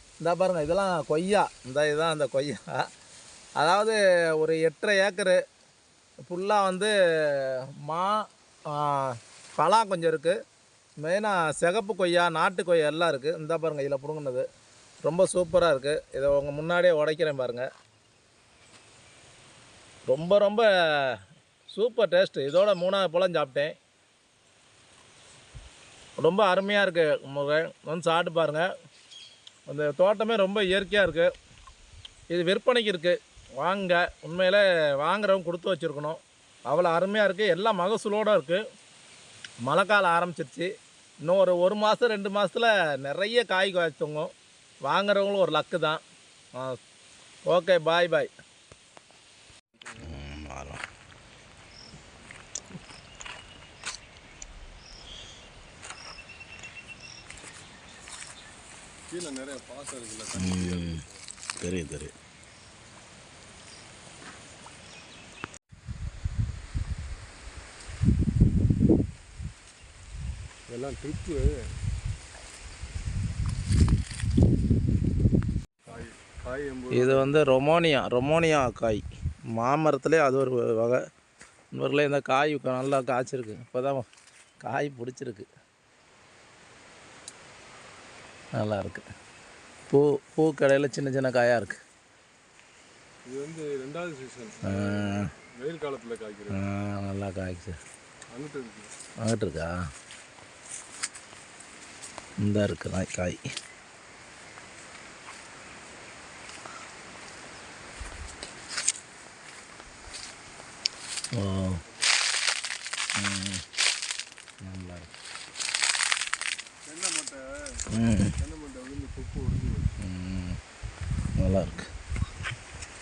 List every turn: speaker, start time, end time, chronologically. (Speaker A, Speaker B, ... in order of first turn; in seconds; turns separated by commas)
Speaker A: 0.2-2.9, Speaker A: 3.6-5.4, Speaker A: 6.3-10.3, Speaker A: 11.0-14.4, Speaker A: 15.0-17.7, Speaker A: 20.1-21.2, Speaker A: 21.7-23.7, Speaker A: 26.2-28.7, Speaker A: 29.7-31.3, Speaker A: 32.3-38.6, Speaker A: 39.6-40.7, Speaker A: 41.2-44.3, Speaker A: 44.8-46.0, Speaker A: 47.5-48.3, Speaker A: 50.0-50.8, Speaker B: 59.1-61.2, Speaker A: 60.3-61.0, Speaker A: 61.6-62.1, Speaker B: 70.7-71.7, Speaker B: 75.8-77.3, Speaker A: 76.9-81.0, Speaker A: 81.7-84.0, Speaker A: 84.6-85.5, Speaker A: 88.6-89.1, Speaker A: 89.9-91.8, Speaker B: 93.3-96.7, Speaker A: 94.6-95.3, Speaker A: 96.5-97.8, Speaker B: 98.3-98.9, Speaker A: 99.2-99.7, Speaker A: 102.4-103.4, Speaker A: 111.3-111.8, Speaker A: 113.2-113.6, Speaker A: 114.6-115.1, Speaker B: 116.8-119.9, Speaker A: 117.9-118.3, Speaker A: 120.0-120.6, Speaker A: 121.4-121.8